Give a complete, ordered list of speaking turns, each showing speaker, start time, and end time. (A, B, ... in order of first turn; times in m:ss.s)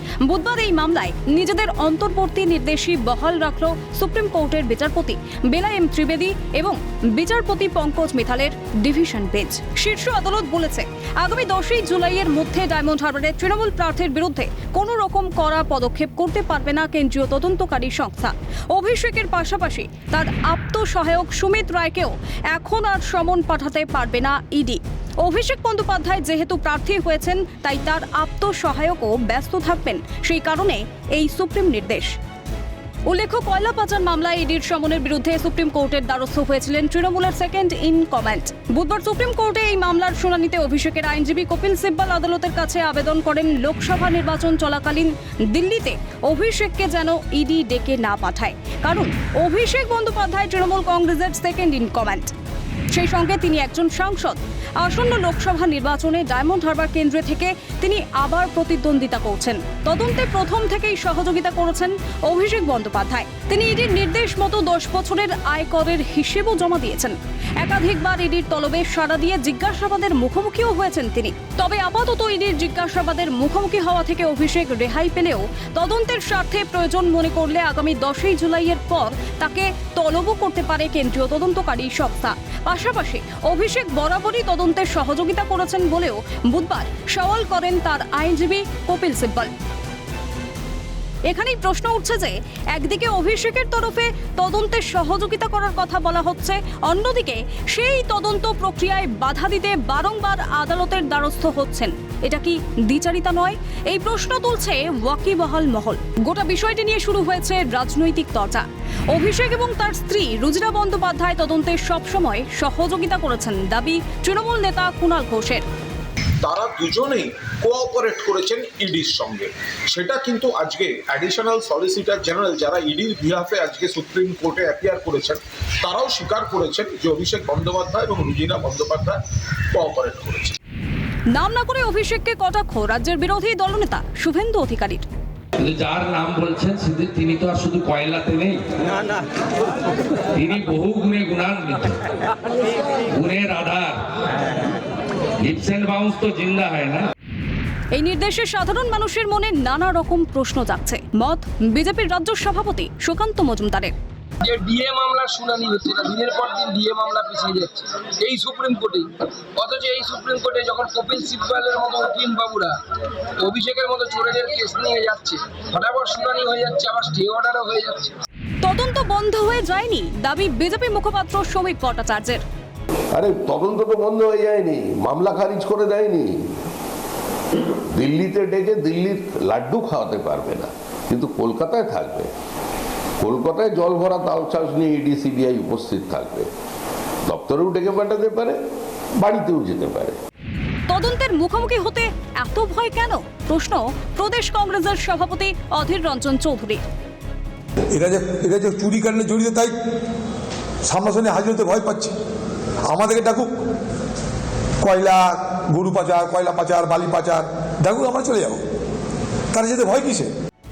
0:00.2-0:32.1 A
0:33.1-0:52.3 A
0:52.9-1:29.5 A
1:31.3-1:55.6 A
1:56.4-2:09.2 B
2:09.7-2:10.6 B
2:11.3-2:15.0 A
2:15.6-2:18.6 C
2:20.3-2:22.0 C
2:23.1-2:24.0 C
2:25.4-2:27.1 C
2:27.9-2:33.9 A
2:34.4-2:48.2 D
2:48.6-2:52.4 A
2:53.1-2:56.4 E
2:57.9-3:02.3 E
3:03.2-3:06.5 E
3:07.2-3:08.6 E
3:09.2-3:10.2 E
3:10.9-3:16.8 A
3:17.9-3:19.7 F
3:20.8-3:22.1 F
3:22.9-3:23.5 F
3:24.8-3:28.6 F
3:29.5-3:30.3 F